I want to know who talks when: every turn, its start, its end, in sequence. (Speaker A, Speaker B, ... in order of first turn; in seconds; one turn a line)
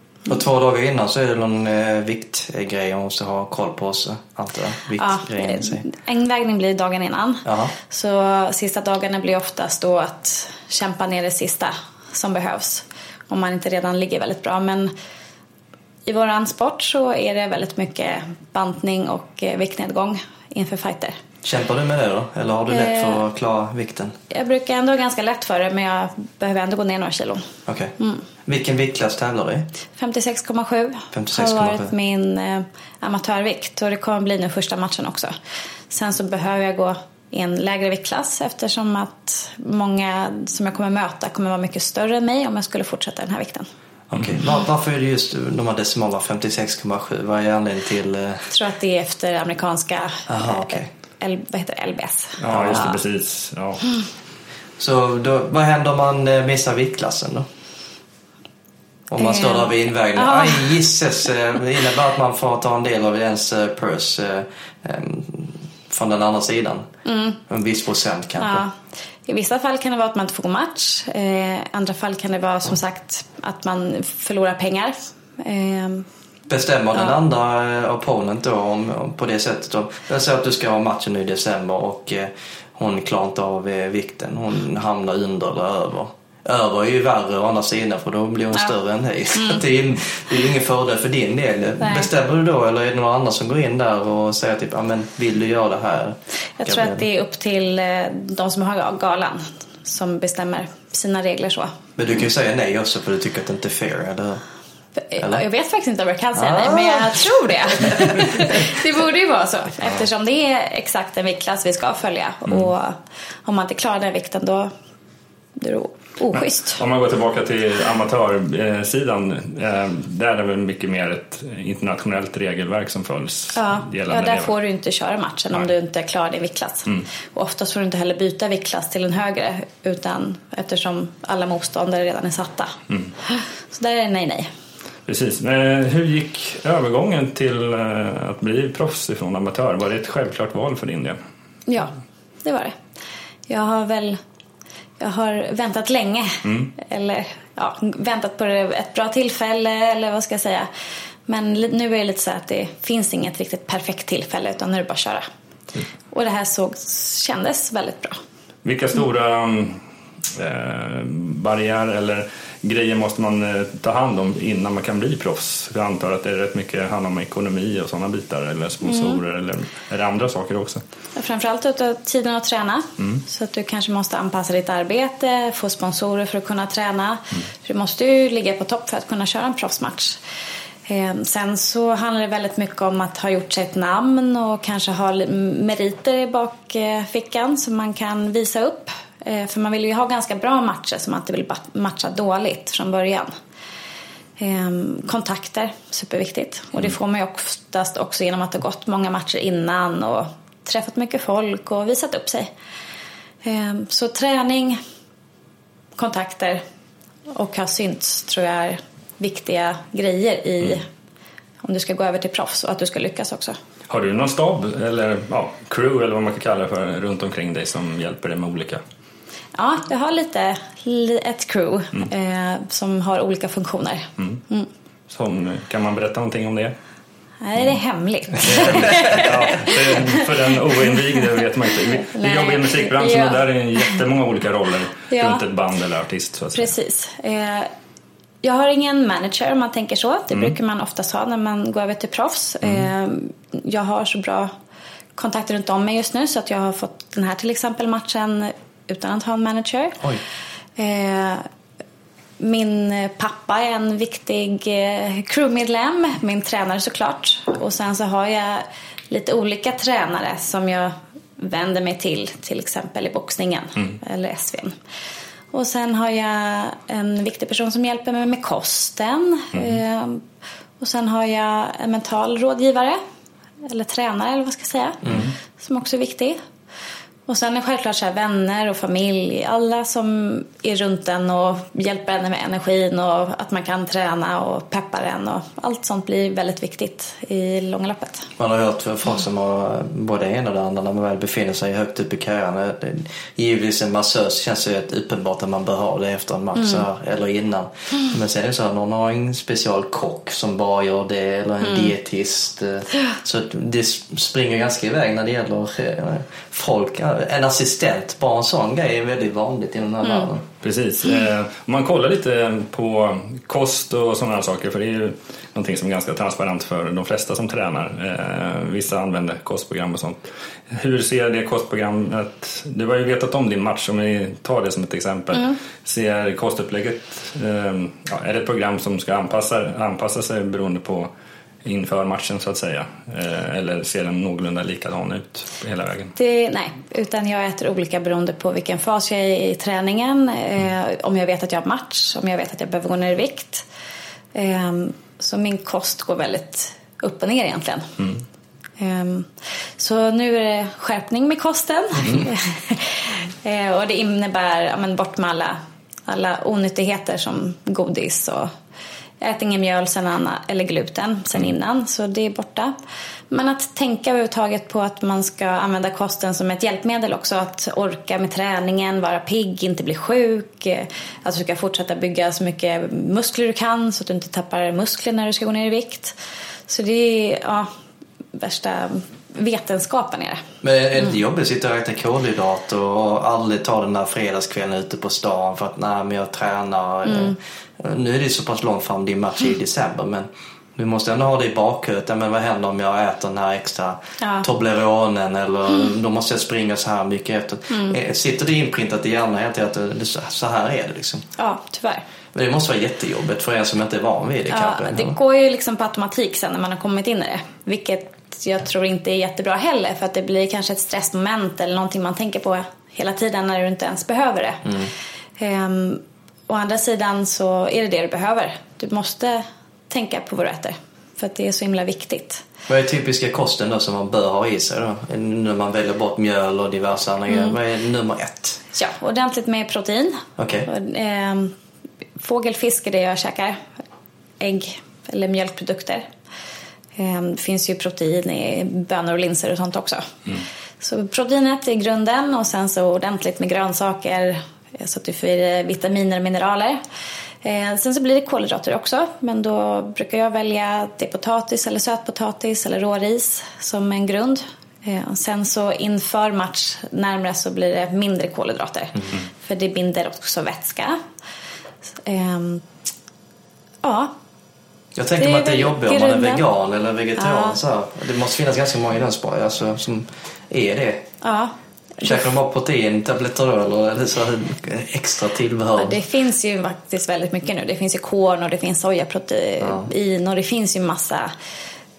Speaker A: 0.3-5.8
Speaker B: 5.0-14.9
Speaker A: 7.4-7.7
Speaker B: 16.1-21.2
Speaker A: 21.4-24.1
Speaker B: 22.7-23.2
Speaker B: 24.3-27.5
Speaker A: 27.7-27.9
Speaker B: 28.0-28.2
Speaker A: 28.4-29.7
Speaker B: 30.0-35.3
Speaker A: 31.1-31.9
Speaker B: 35.9-43.7
Speaker A: 44.1-48.5
Speaker C: 44.1-44.4
Speaker B: 48.5-53.0
Speaker A: 50.3-50.9
Speaker C: 52.4-53.8
Speaker A: 54.8-57.5
Speaker A: 59.1-66.9
Speaker B: 59.2-60.8
Speaker B: 67.0-67.4
Speaker A: 67.5-68.6
Speaker B: 68.4-68.7
Speaker B: 69.2-76.1
Speaker A: 76.5-97.0
Speaker B: 89.3-89.6
Speaker B: 91.8-92.1
Speaker B: 96.6-101.7
Speaker A: 102.0-104.4
Speaker B: 105.1-114.7
Speaker A: 106.3-107.2
Speaker B: 115.6-116.8
Speaker C: 116.3-124.5
Speaker B: 123.5-132.7
Speaker B: 133.2-134.5
Speaker C: 135.1-141.2
Speaker B: 141.7-142.8
Speaker B: 143.5-144.2
Speaker B: 145.0-150.7
Speaker C: 146.4-146.7
Speaker B: 151.3-155.3
Speaker B: 156.1-158.2
Speaker C: 158.6-170.8
Speaker B: 168.8-169.2
Speaker B: 171.2-180.2
Speaker B: 180.9-193.3
Speaker B: 194.4-202.5
Speaker B: 203.4-204.8
Speaker B: 205.9-206.6
Speaker B: 207.3-210.8
Speaker B: 211.6-213.6
Speaker C: 213.9-218.8
Speaker B: 219.5-224.7
Speaker C: 225.1-226.7
Speaker B: 227.4-231.0
Speaker C: 228.4-236.7
Speaker B: 232.0-233.4
Speaker B: 235.1-235.4
Speaker B: 236.5-237.7
Speaker B: 238.4-244.5
Speaker B: 245.2-250.0
Speaker B: 250.8-251.4
Speaker B: 252.4-264.8
Speaker B: 265.5-270.2
Speaker B: 270.8-273.0
Speaker B: 273.7-276.4
Speaker B: 277.3-288.3
Speaker A: 288.4-310.4
Speaker C: 310.6-331.1
Speaker C: 331.6-336.1
Speaker B: 336.1-343.6
Speaker B: 344.3-348.0
Speaker B: 348.8-358.5
Speaker B: 359.2-362.7
Speaker B: 363.3-376.1
Speaker B: 376.7-377.7
Speaker B: 378.3-380.4
Speaker A: 380.6-401.2
Speaker B: 387.1-387.4
Speaker B: 394.2-394.4
Speaker B: 397.7-398.0
Speaker B: 401.4-402.0
Speaker A: 402.3-405.1
Speaker B: 404.5-414.8
Speaker A: 414.6-414.9
Speaker B: 415.4-422.4
Speaker A: 422.7-428.6
Speaker B: 427.3-427.5
Speaker B: 428.7-431.5
Speaker A: 430.4-430.7
Speaker B: 432.2-433.6
Speaker B: 434.4-436.1
Speaker B: 437.0-446.8
Speaker B: 447.4-461.0
Speaker B: 462.0-462.6
Speaker B: 463.8-464.1
Speaker A: 464.9-471.1
Speaker B: 465.2-466.4
Speaker B: 467.2-467.6
Speaker B: 471.2-472.2
Speaker A: 472.0-476.0
Speaker B: 475.8-481.3
Speaker A: 479.6-479.9